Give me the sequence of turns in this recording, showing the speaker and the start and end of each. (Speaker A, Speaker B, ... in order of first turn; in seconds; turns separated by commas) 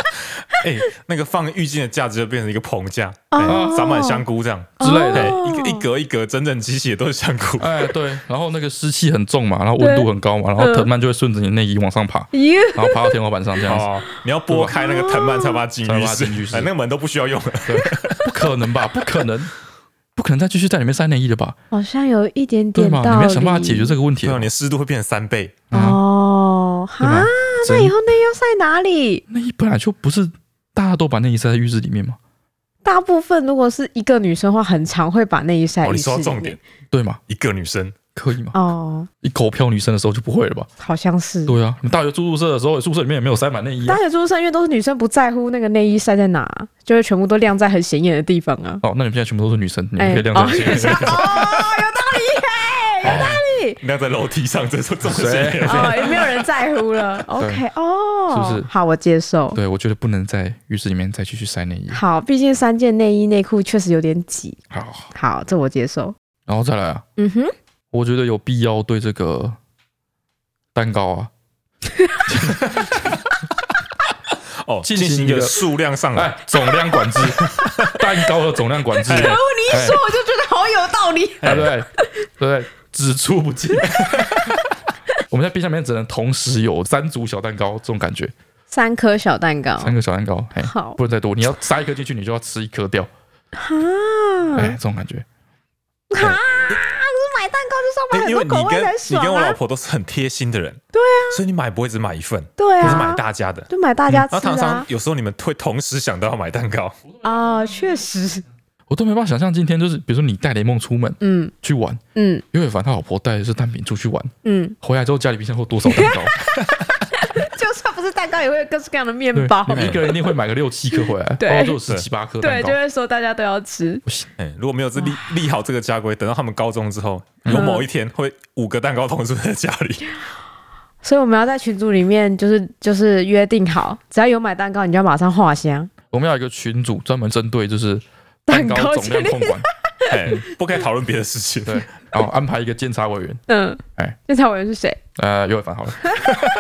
Speaker A: 0.5-7.9, Speaker B: 3.3-4.2, Speaker C: 3.4-3.9, Speaker B: 4.8-5.8, Speaker C: 4.8-5.4, Speaker C: 7.6-13.9, Speaker B: 9.8-10.9, Speaker B: 12.3-13.2, Speaker A: 13.7-18.2, Speaker C: 14.5-14.8, Speaker B: 14.7-15.6, Speaker C: 15.8-16.7, Speaker C: 17.6-19.5, Speaker C: 20.1-21.6, Speaker B: 21.7-23.9, Speaker C: 22.7-24.5, Speaker A: 24.2-25.6, Speaker C: 25.7-26.0, Speaker B: 25.7-29.2, Speaker C: 27.0-27.9, Speaker C: 29.3-32.2, Speaker B: 32.8-36.6, Speaker A: 35.8-36.6, Speaker C: 36.9-37.2, Speaker A: 37.3-37.9, Speaker C: 38.1-38.6, Speaker B: 38.5-39.1, Speaker C: 39.2-40.7, Speaker B: 40.8-41.5, Speaker C: 41.5-44.0, Speaker B: 43.9-48.8, Speaker C: 48.8-51.2, Speaker B: 50.0-53.8, Speaker A: 50.6-51.7, Speaker C: 53.0-53.4, Speaker A: 53.0-56.4, Speaker C: 55.0-56.0, Speaker B: 55.6-59.6, Speaker C: 57.4-57.6, Speaker C: 58.3-58.7, Speaker C: 59.5-62.0, Speaker B: 61.9-64.6, Speaker C: 64.7-65.1, Speaker B: 65.1-66.1, Speaker C: 66.5-67.0, Speaker B: 67.2-67.5, Speaker C: 67.9-69.6, Speaker C: 70.7-71.3, Speaker C: 72.2-73.2, Speaker A: 74.6-76.3, Speaker C: 74.8-80.0, Speaker A: 77.4-77.9, Speaker A: 79.1-79.4, Speaker B: 79.1-82.0, Speaker A: 81.4-81.7, Speaker C: 81.4-81.9, Speaker C: 82.4-84.5, Speaker C: 85.3-88.3, Speaker B: 88.7-89.9, Speaker C: 89.8-93.1, Speaker B: 90.6-91.0, Speaker B: 93.5-94.8, Speaker C: 94.5-95.2, Speaker B: 96.1-99.6, Speaker A: 98.1-107.0, Speaker B: 100.9-101.4, Speaker B: 102.6-104.9, Speaker B: 107.2-108.4, Speaker C: 108.9-112.0, Speaker B: 111.2-111.5, Speaker B: 112.1-112.4, Speaker C: 112.5-116.3, Speaker B: 114.4-114.8, Speaker B: 115.9-120.2, Speaker C: 119.3-122.8, Speaker A: 119.7-120.0, Speaker B: 121.4-121.8, Speaker B: 122.4-124.0, Speaker A: 124.4-130.1, Speaker B: 125.0-125.2, Speaker C: 127.4-127.7, Speaker B: 127.5-127.8, Speaker B: 131.0-135.9, Speaker C: 136.1-139.7, Speaker B: 138.5-140.3, Speaker A: 140.1-141.9, Speaker C: 141.7-143.4, Speaker B: 143.5-145.0, Speaker C: 145.2-146.4